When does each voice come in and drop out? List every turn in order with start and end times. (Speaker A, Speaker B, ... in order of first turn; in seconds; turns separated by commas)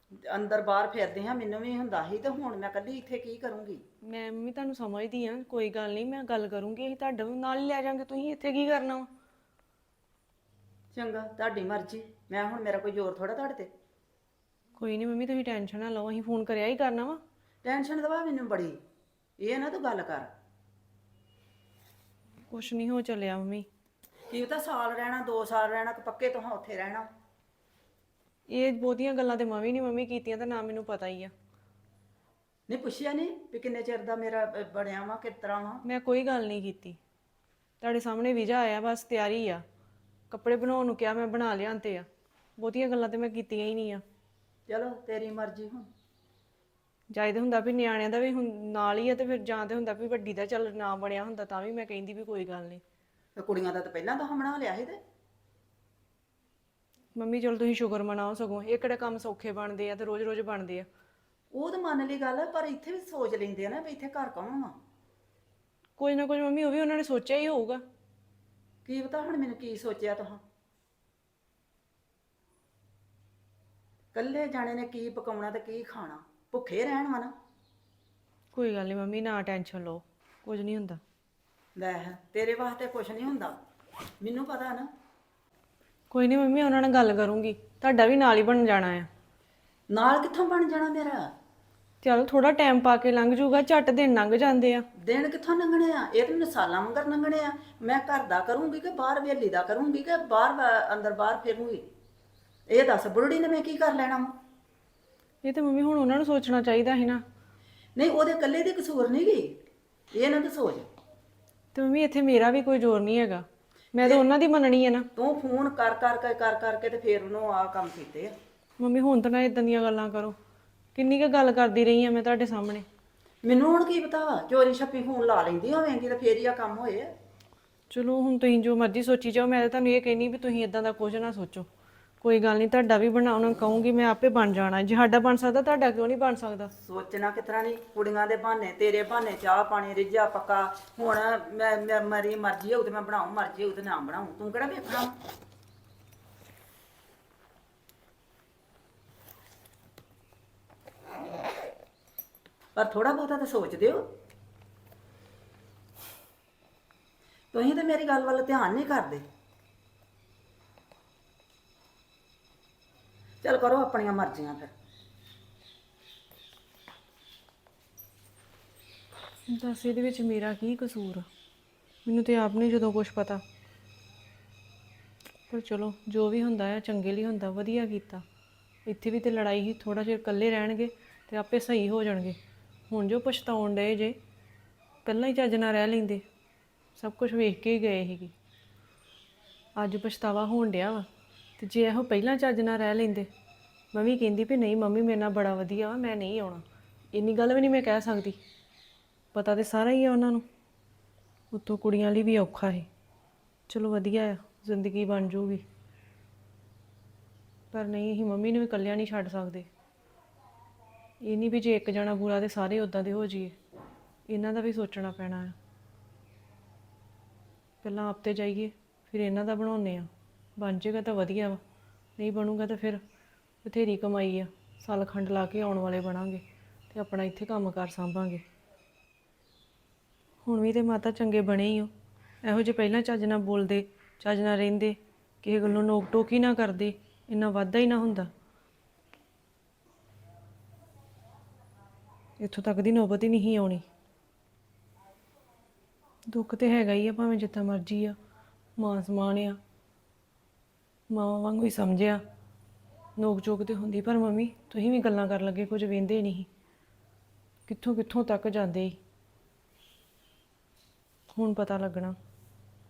Speaker A: 0.2-3.8, Speaker B: 4.0-9.1, Speaker A: 10.9-13.7, Speaker B: 14.8-17.2, Speaker A: 17.6-18.8, Speaker A: 19.4-20.3, Speaker B: 22.5-23.7, Speaker A: 24.3-27.1, Speaker B: 28.5-31.3, Speaker A: 32.7-35.8, Speaker B: 35.9-37.0, Speaker B: 37.8-39.6, Speaker B: 40.3-42.1, Speaker B: 42.6-44.0, Speaker A: 44.7-45.9, Speaker B: 47.1-52.8, Speaker A: 53.4-55.0, Speaker B: 57.1-60.9, Speaker A: 61.5-64.8, Speaker B: 66.0-67.8, Speaker A: 68.8-70.4, Speaker A: 74.1-77.3, Speaker B: 78.5-81.0, Speaker A: 81.8-83.6, Speaker A: 84.2-84.9, Speaker B: 86.1-89.1, Speaker A: 89.9-91.3, Speaker B: 92.0-94.8, Speaker A: 95.0-101.9, Speaker A: 102.7-104.3, Speaker B: 105.4-107.2, Speaker A: 108.0-109.6, Speaker A: 110.1-110.9, Speaker B: 111.8-115.1, Speaker A: 115.2-118.4, Speaker B: 118.8-120.4, Speaker B: 121.0-122.9, Speaker A: 123.4-127.1, Speaker B: 127.9-131.7, Speaker B: 132.2-136.7, Speaker A: 136.8-145.2, Speaker A: 152.8-154.1, Speaker A: 157.5-159.2, Speaker A: 163.4-164.7, Speaker B: 169.5-171.3, Speaker B: 172.1-173.4, Speaker B: 175.5-178.2, Speaker B: 178.9-182.4, Speaker B: 182.9-184.2, Speaker B: 185.1-186.2, Speaker B: 187.0-188.3, Speaker B: 189.8-191.1, Speaker B: 191.6-193.3, Speaker B: 193.9-198.4, Speaker B: 199.3-200.5, Speaker B: 201.5-202.9, Speaker B: 203.7-205.7, Speaker B: 207.7-209.7, Speaker B: 211.2-213.6, Speaker B: 214.3-215.6, Speaker B: 217.8-221.6, Speaker B: 222.2-223.0, Speaker B: 223.6-228.4, Speaker B: 230.4-231.9, Speaker B: 232.4-238.3, Speaker B: 242.4-243.8, Speaker B: 246.3-248.2, Speaker B: 248.8-249.6, Speaker B: 251.1-252.2, Speaker B: 253.2-256.5, Speaker B: 257.7-259.0, Speaker B: 261.3-262.1